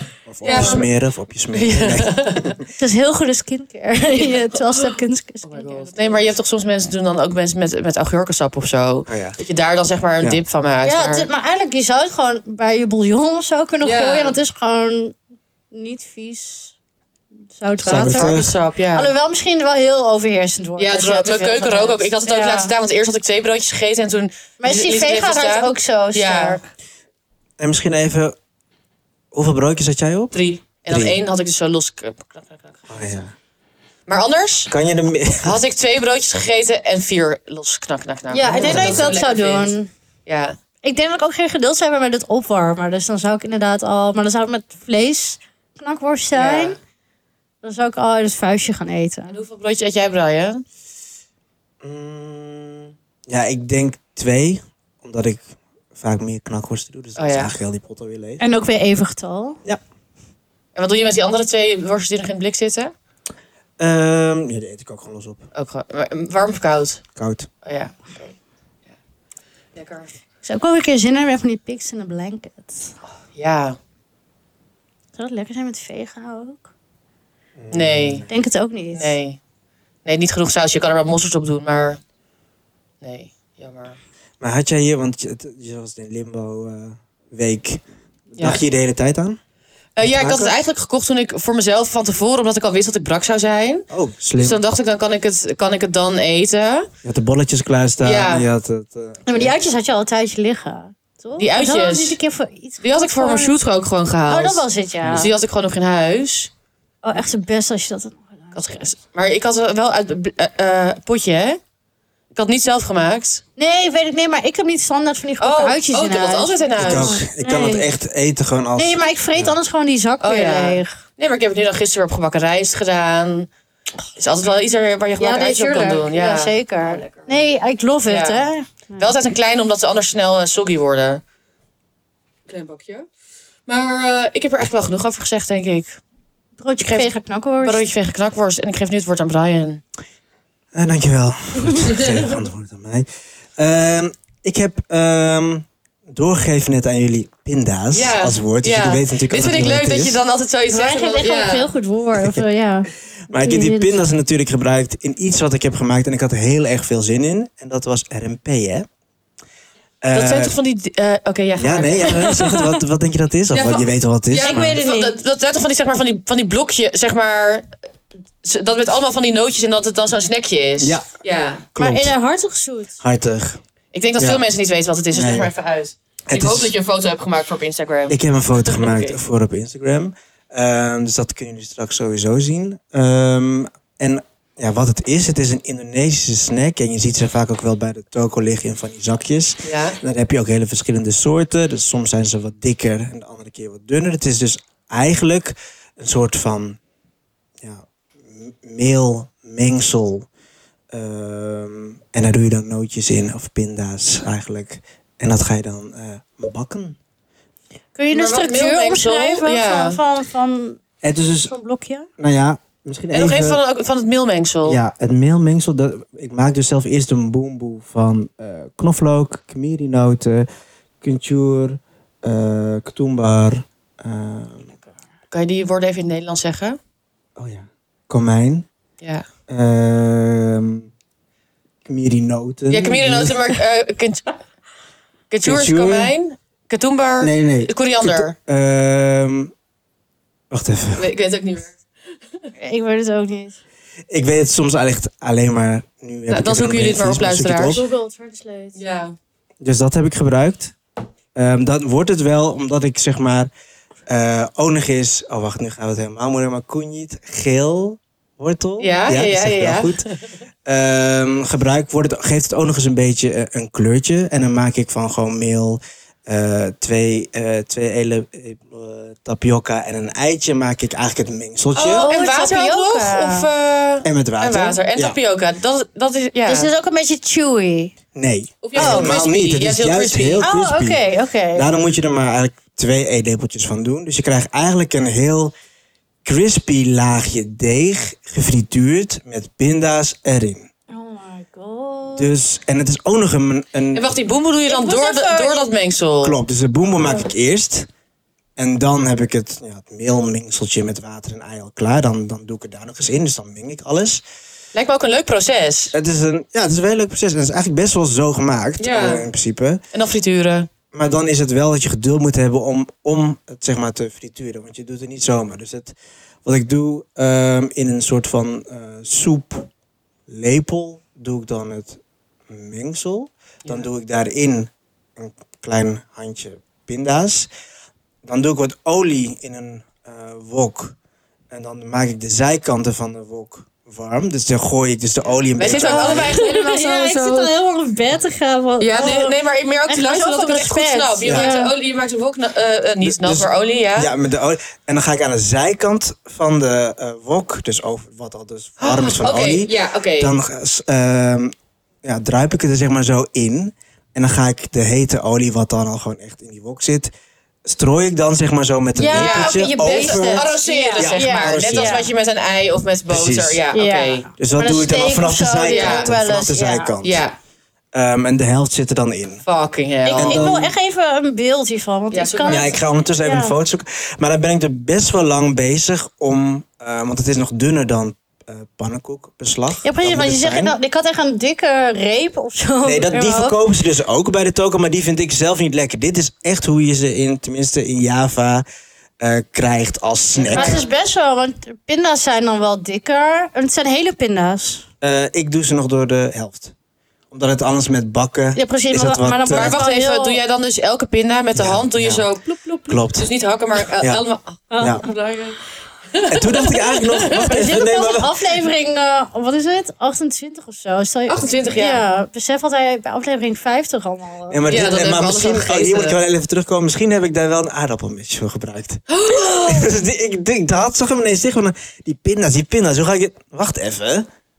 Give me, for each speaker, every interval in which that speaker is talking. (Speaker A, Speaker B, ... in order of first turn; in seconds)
Speaker A: 0.3-2.6, 9.1-9.4, 17.9-18.5, 27.6-28.4, 29.3-30.4, 30.9-31.2, 32.9-33.3, 34.7-35.6, 38.5-39.1, 51.8-55.4, 56.0-58.4, 63.8-65.4, 67.2-67.5, 77.6-78.3, 84.4-89.4, 90.0-90.5, 93.9-94.6, 97.0-99.5, 105.0-105.3, 116.8-119.5, 140.7-143.1, 143.6-150.2, 152.2-152.4, 153.3-158.9, 160.0-160.6, 161.6-164.8, 170.8-171.1, 171.7-172.1, 173.0-173.6, 174.2-174.4, 175.1-175.5, 176.3-176.7, 178.1-196.8, 197.6-200.3, 200.9-207.0, 211.0-211.5, 212.2-213.6, 214.7-220.5, 221.0-224.7, 227.4-228.7, 229.5-230.9, 231.8-233.5, 235.4-236.1, 237.2-239.5, 240.5-241.1, 244.1-247.8, 249.6-250.8, 251.3-253.5, 254.1-260.0, 260.7-272.1, 274.0-275.2, 278.1-281.0, 281.6-285.5, 286.2-290.7, 292.2-294.1, 296.2-297.9, 298.6-304.2, 305.9-309.8, 310.9-319.7, 320.3-327.5, 328.2-331.0, 331.5-336.4, 341.2-341.5, 343.0-357.1, 357.6-362.0, 363.1-363.6, 364.4-367.2, 367.9-369.4, 370.2-370.7, 372.5-380.7, 382.9-388.6, 389.2-390.8, 395.0-396.7, 397.3-399.8, 401.6-402.3, 402.9-403.3, 404.0-404.2, 406.3-408.4, 414.5-424.3
Speaker B: 0.4-0.9, 1.5-2.6, 5.5-11.3, 13.8-14.4, 17.8-19.1, 20.8-26.6, 30.3-32.9, 34.1-34.7, 35.4-39.8, 40.3-40.6, 46.3-46.8, 49.3-50.6, 57.2-57.5, 60.8-62.9, 65.5-67.0, 67.6-68.4, 69.8-70.1, 73.4-73.8, 77.7-78.3, 79.0-79.4, 80.0-82.0, 83.0-84.0, 90.0-96.9, 98.0-98.5, 101.4-102.2, 102.8-106.5, 108.5-111.6, 112.3-113.4, 115.4-117.2, 120.2-123.5, 124.2-127.3, 128.1-128.4, 129.0-131.2, 132.5-133.1, 133.7-136.0, 136.8-137.1, 137.6-139.8, 141.9-142.2, 147.9-151.7, 160.1-162.7, 163.5-167.7, 168.4-171.7, 173.9-179.2, 189.7-190.0, 208.1-210.0, 213.1-214.8, 225.3-226.8, 232.7-234.4, 235.3-238.4, 241.0-241.8, 246.3-247.8, 248.8-249.2, 258.8-260.1, 271.8-276.7, 278.6-280.5, 293.9-296.4, 304.7-305.9, 308.8-309.3, 309.9-310.7, 335.6-337.5, 338.8-344.1, 348.8-350.4, 359.1-364.3, 365.7-366.1, 367.0-367.4, 369.5-370.6, 372.1-372.8, 390.4-390.9, 399.5-405.6, 406.1-407.6, 411.3-412.0, 414.7-416.2, 419.1-419.9
Speaker C: 0.5-0.8, 2.8-6.2, 10.8-15.2, 15.7-16.8, 17.5-18.4, 18.9-22.7, 24.6-26.6, 38.3-39.9, 40.8-46.8, 47.6-49.4, 58.4-59.6, 70.4-73.0, 75.2-76.7, 78.3-79.2, 99.3-103.5, 104.3-105.3, 107.0-108.8, 113.6-117.9, 118.8-120.9, 125.2-129.1, 136.6-137.8, 150.7-154.0, 164.4-165.2, 171.8-173.0, 208.0-210.8, 211.4-212.1, 242.6-243.6, 247.7-248.8, 271.9-273.5, 276.5-277.9, 278.8-279.2, 280.4-281.7, 290.9-292.3, 294.7-295.7, 335.7-339.4, 339.9-341.7, 359.0-362.1, 363.7-366.9, 370.1-372.7, 373.2-373.5, 379.8-383.6, 390.5-394.9, 398.6-400.4, 404.7-405.1, 407.4-414.6